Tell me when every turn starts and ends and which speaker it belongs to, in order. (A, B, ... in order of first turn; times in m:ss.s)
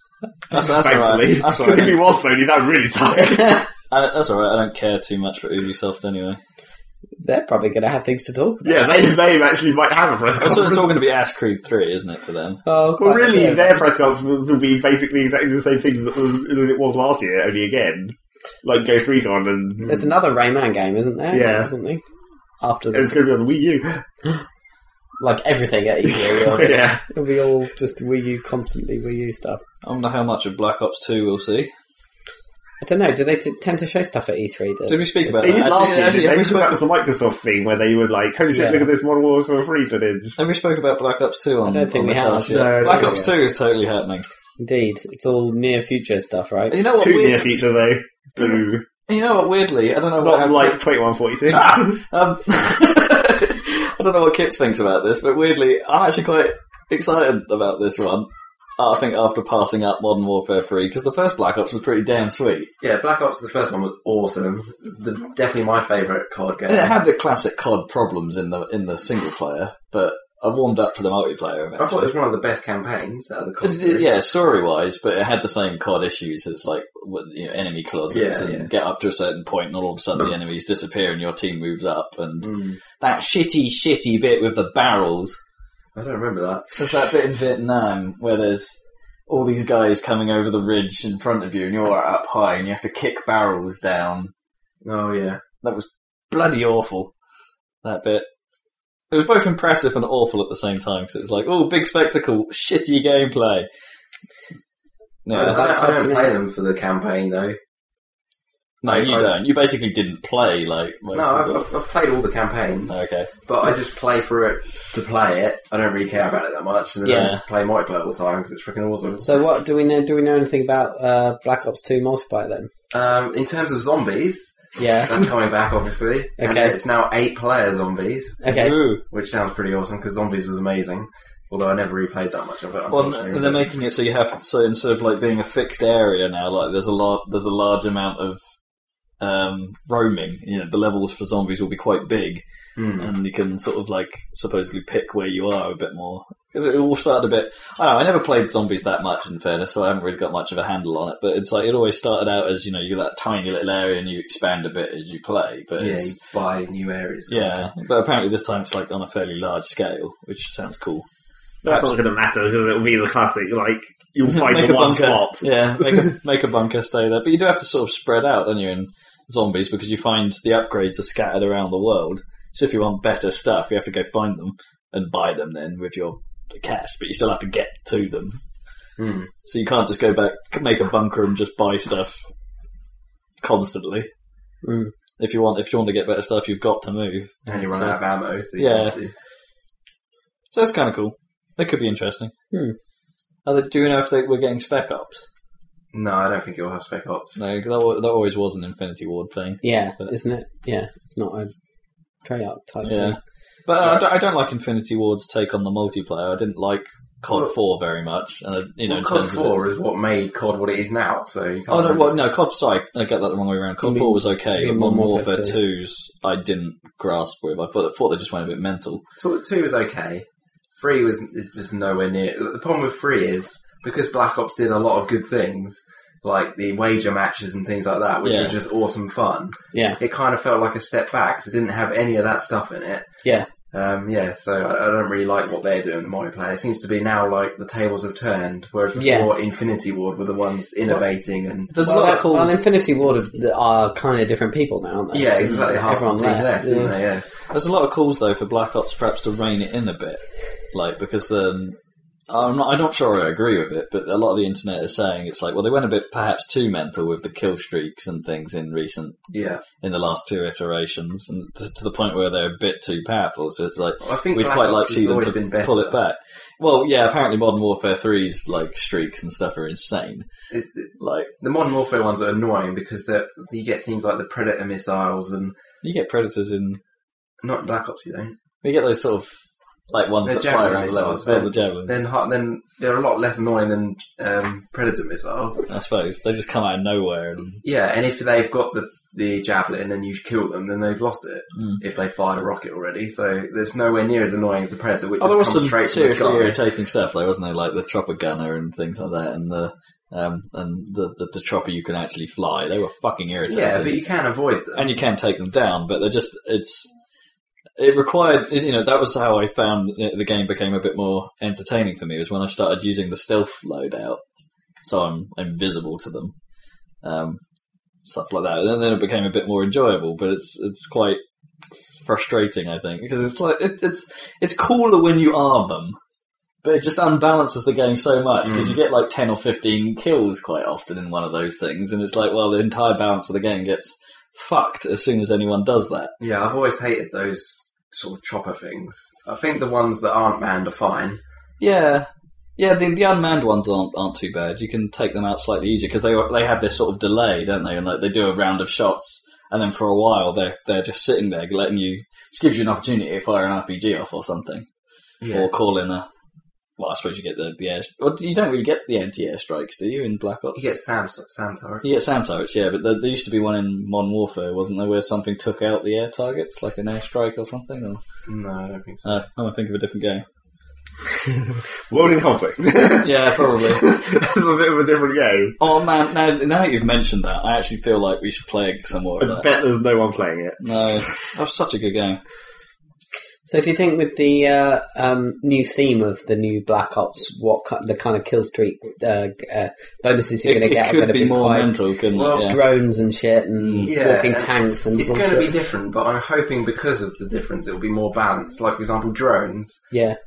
0:00.5-0:02.0 A
0:00.5-0:03.6 B
0:03.9-0:06.4 A
0:07.2-0:09.1 C
0:08.6-0:11.0 B
0:10.4-0:12.6 A
0:12.6-0:13.8 C
0:13.0-0:20.1 B
0:19.9-0:22.0 C
0:21.3-0:21.7 B
0:22.6-0:23.2 C
0:22.9-0:24.0 B
0:25.2-0:29.6 C
0:26.1-0:27.0 B
0:29.8-0:31.7 A
0:32.8-0:35.6 C
0:34.9-0:36.8 A
0:35.4-0:40.4 B
0:38.5-0:38.9 C
0:40.4-0:44.3 A
0:41.6-0:43.3 C
0:42.5-0:43.2 B
0:44.6-0:46.8 C
0:46.7-0:47.4 A
0:47.0-0:48.9 B
0:49.1-0:50.8 A
0:50.2-0:52.0 B
0:51.5-1:02.7 A
1:02.8-1:07.0 D
1:06.7-1:12.1 A
1:11.8-1:14.1 D
1:13.6-1:25.4 A
1:18.1-1:18.7 D
1:22.4-1:22.8 D
1:26.0-1:26.7 D
1:26.7-1:28.8 A
1:29.3-1:34.3 A
1:34.8-1:35.4 D
1:35.6-1:37.1 A
1:37.8-1:38.3 A
1:39.1-1:43.7 A
1:45.2-1:45.6 A
1:45.3-1:47.6 D
1:45.4-1:46.3 C
1:48.8-1:51.6 A
1:48.8-1:49.3 D
1:51.1-1:59.4 D
1:52.9-1:53.3 A
1:57.0-1:57.3 C
1:57.1-1:57.4 A
1:59.2-2:02.7 C
2:02.9-2:04.5 D
2:04.8-2:05.2 C
2:05.0-2:08.4 D
2:06.4-2:06.8 C
2:08.4-2:08.8 C
2:08.4-2:09.0 A
2:09.1-2:13.6 D
2:12.9-2:18.4 A
2:19.2-2:22.4 A
2:22.8-2:23.1 D
2:23.0-2:36.1 A
2:35.8-2:37.6 D
2:37.3-2:41.1 A
2:41.6-2:46.1 B
2:41.6-2:41.9 A
2:44.2-2:58.4 A
2:59.0-2:59.3 D
2:59.5-3:02.2 A
3:03.4-3:04.1 A
3:04.6-3:04.9 C
3:05.2-3:07.4 A
3:07.5-3:09.1 D
3:08.6-3:09.0 A
3:10.5-3:12.3 A
3:13.4-3:15.2 A
3:15.9-3:17.3 D
3:17.4-3:20.1 A
3:19.6-3:21.5 C
3:22.2-3:23.2 C
3:22.8-3:29.6 A
3:23.8-3:24.0 D
3:28.9-3:32.2 D
3:31.7-3:39.0 A
3:33.8-3:35.6 C
3:39.2-3:40.2 D
3:40.8-3:53.1 D
3:48.2-3:48.6 A
3:49.7-3:50.0 C
3:53.7-4:01.7 D
3:59.0-3:59.3 C
4:01.7-4:02.6 A
4:01.8-4:06.9 C
4:05.1-4:07.3 D
4:07.5-4:11.8 A
4:12.3-4:19.2 A
4:19.3-4:19.6 D
4:19.8-4:30.3 A
4:24.0-4:26.0 D
4:30.5-4:35.6 D
4:31.0-4:31.3 A
4:35.8-4:36.8 A
4:37.4-4:38.4 D
4:38.6-4:39.3 A
4:39.9-4:42.0 A
4:40.2-4:45.6 D
4:45.7-4:47.6 A
4:47.6-4:56.6 D
4:55.2-5:04.0 A
5:03.5-5:05.0 D
5:04.8-5:06.9 A
5:07.8-5:14.2 A
5:14.8-5:16.3 A
5:17.0-5:17.4 A
5:18.0-5:21.2 A
5:22.0-5:26.0 A
5:26.6-5:36.1 A
5:28.4-5:28.8 D
5:36.2-5:41.2 D
5:41.6-5:54.7 A
5:55.2-5:55.5 D
5:55.3-5:56.1 A
5:56.8-6:00.6 A
6:00.6-6:01.8 D
6:01.8-6:08.0 A
6:08.3-6:09.1 D
6:09.0-6:10.2 A
6:11.5-6:15.6 B
6:13.0-6:13.9 A
6:15.6-6:19.5 A
6:19.2-6:20.6 B
6:20.6-6:22.2 A
6:23.5-6:31.7 C
6:30.4-6:32.6 A
6:32.1-6:32.6 D
6:32.3-6:35.5 C
6:33.6-6:33.9 A
6:33.8-6:39.8 D
6:39.9-6:40.2 C